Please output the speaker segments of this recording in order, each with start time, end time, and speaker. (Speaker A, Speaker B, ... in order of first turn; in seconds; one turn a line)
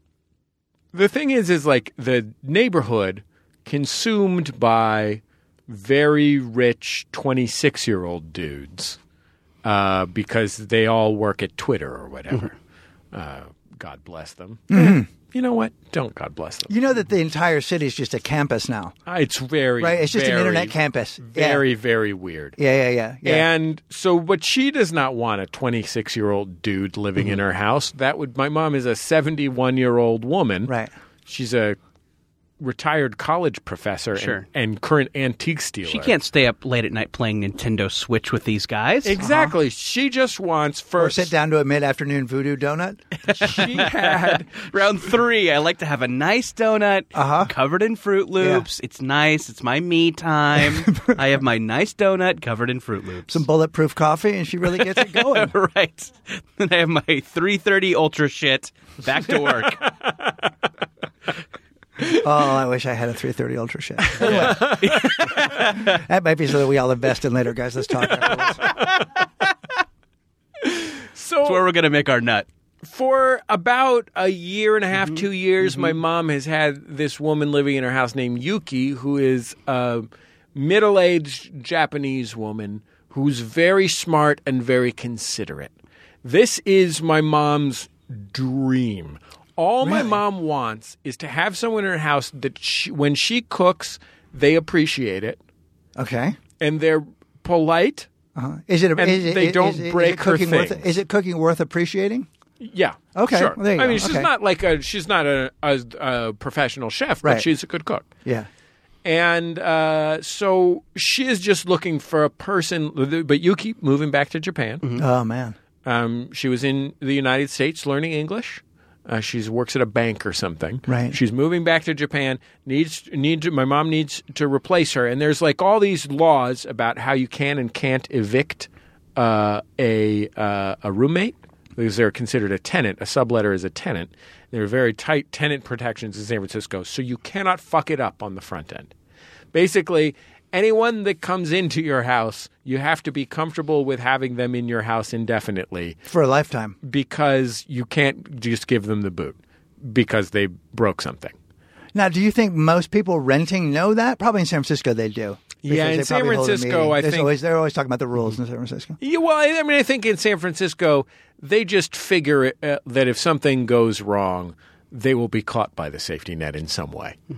Speaker A: 0.9-9.0
Speaker A: 9.6-12.5
Speaker A: 13.1-16.7
Speaker B: 14.7-15.1
Speaker B: 16.7-18.9
Speaker A: 19.1-22.6
Speaker B: 19.8-21.6
Speaker B: 22.6-23.5
Speaker A: 23.2-30.7
Speaker B: 30.6-30.9
Speaker A: 31.3-31.8
Speaker A: 32.6-36.1
Speaker C: 34.1-34.4
Speaker C: 35.9-39.1
Speaker A: 39.0-41.3
Speaker B: 39.2-39.5
Speaker B: 41.0-43.0
Speaker C: 43.2-53.4
Speaker A: 43.3-44.5
Speaker B: 47.1-47.5
Speaker B: 48.4-48.6
Speaker B: 53.3-55.5
Speaker C: 54.7-59.8
Speaker B: 62.1-64.8
Speaker A: 64.1-65.4
Speaker C: 64.2-66.0
Speaker B: 65.6-68.7
Speaker A: 68.2-68.9
Speaker A: 70.6-71.6
Speaker C: 71.4-72.5
Speaker A: 72.8-85.7
Speaker C: 74.9-76.0
Speaker A: 86.2-95.4
Speaker B: 89.8-90.2
Speaker B: 96.0-96.4
Speaker A: 96.6-98.1
Speaker B: 98.3-102.3
Speaker A: 99.0-100.8
Speaker A: 102.6-108.0
Speaker B: 103.1-104.3
Speaker A: 109.0-114.8
Speaker B: 115.0-115.5
Speaker A: 115.8-138.9
Speaker B: 120.9-121.2
Speaker A: 139.5-145.9
Speaker B: 146.1-146.8
Speaker A: 146.8-151.3
Speaker B: 151.9-158.9
Speaker A: 155.6-157.3
Speaker A: 159.0-167.2